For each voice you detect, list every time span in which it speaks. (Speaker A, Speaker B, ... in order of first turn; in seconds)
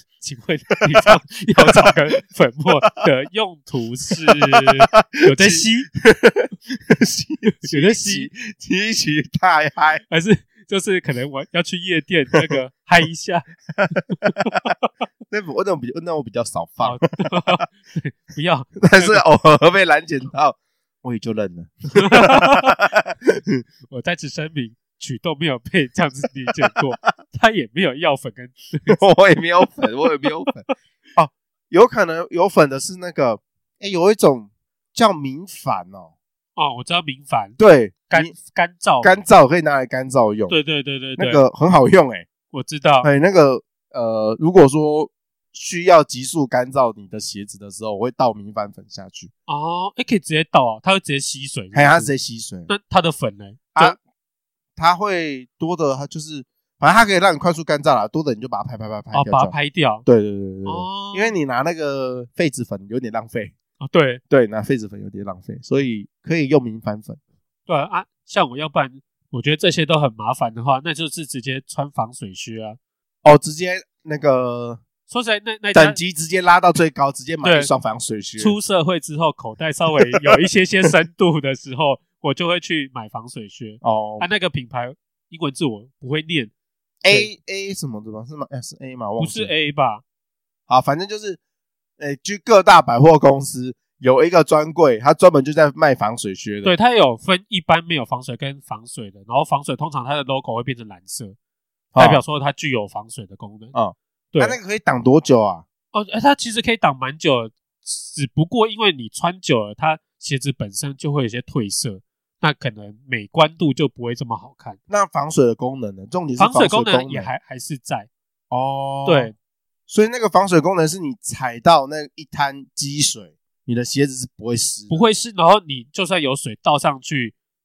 Speaker A: 0.2-5.9, 7.6-8.3, 10.1-13.5, 14.2-14.7, 16.8-19.2, 21.9-22.8, 23.9-29.0, 36.5-37.6, 38.1-39.2, 40.5-41.4, 42.5-43.1, 49.5-52.1, 52.7-54.0, 59.1-60.0, 60.6-61.4, 63.8-64.2, 67.7-72.8, 75.1-76.0, 77.4-77.7, 78.4-86.5, 89.2-90.0, 96.6-101.3, 102.0-103.7, 104.3-104.6, 105.9-114.8, 116.4-118.1, 119.0-119.3, 124.9-127.3
Speaker B: 1.0-1.9, 4.5-10.0, 13.7-14.3, 15.3-17.6, 18.8-23.6, 28.9-30.6, 31.1-36.1, 37.6-38.3, 39.0-40.5, 41.2-42.2, 43.0-49.3, 51.7-52.7, 54.8-59.5, 60.0-63.5, 64.3-67.2, 73.2-74.8, 75.7-78.5, 80.0-80.3, 83.8-84.3, 87.0-89.5, 90.7-91.4, 92.0-96.7, 101.9-102.2, 103.7-105.6, 114.9-117.3, 118.5-119.3, 119.9-125.0